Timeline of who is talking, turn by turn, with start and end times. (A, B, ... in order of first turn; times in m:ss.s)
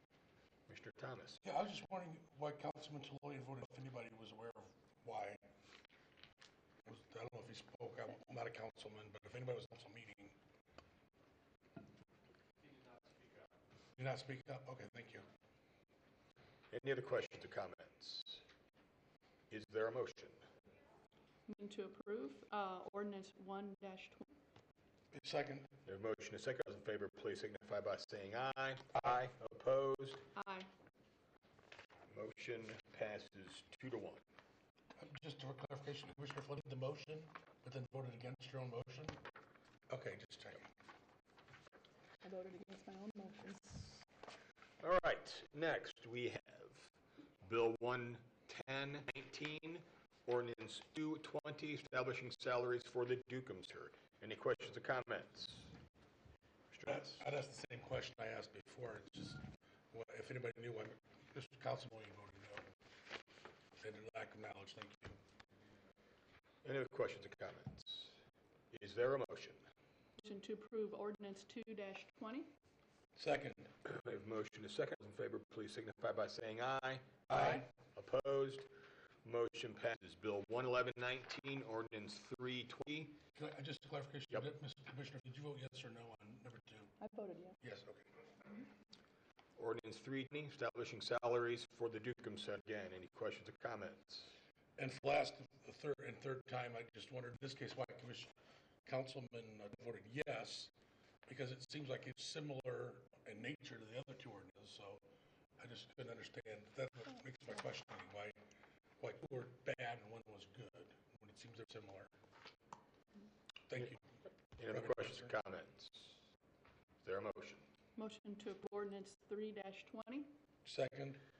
0:00.7-0:01.4 A
0:01.4-0:05.4 B
0:06.8-0:10.4 B
0:14.0-0:15.3 B
0:16.7-0:18.4 A
0:19.5-0:20.5 A
0:21.5-0:24.3 C
0:25.1-0:25.7 B
0:25.8-0:30.3 A
0:30.4-0:30.7 C
0:32.1-0:34.2 A
0:35.0-0:39.2 B
0:39.9-0:40.7 B
0:42.2-0:44.0 C
0:44.8-0:46.9 A
0:47.4-0:55.8 A
0:56.7-0:57.2 A
0:56.8-1:02.7 B
1:03.8-1:05.2 B
1:06.6-1:08.2 A
1:08.7-1:09.6 A
1:10.2-1:12.5 C
1:13.2-1:13.7 B
1:13.8-1:18.7 A
1:19.2-1:23.2 A
1:23.4-1:26.9 B
1:27.0-1:27.6 C
1:27.6-1:28.1 B
1:29.6-1:34.4 A
1:34.8-1:38.3 B
1:38.8-1:40.7 B
1:41.3-1:45.0 B
1:45.6-1:48.4 B
1:49.0-1:52.1 B
1:53.7-1:54.0 B
1:54.6-1:56.2 A
1:54.7-1:55.3 B
1:57.0-1:57.6 A
1:58.0-2:00.3 C
2:00.6-2:01.2 B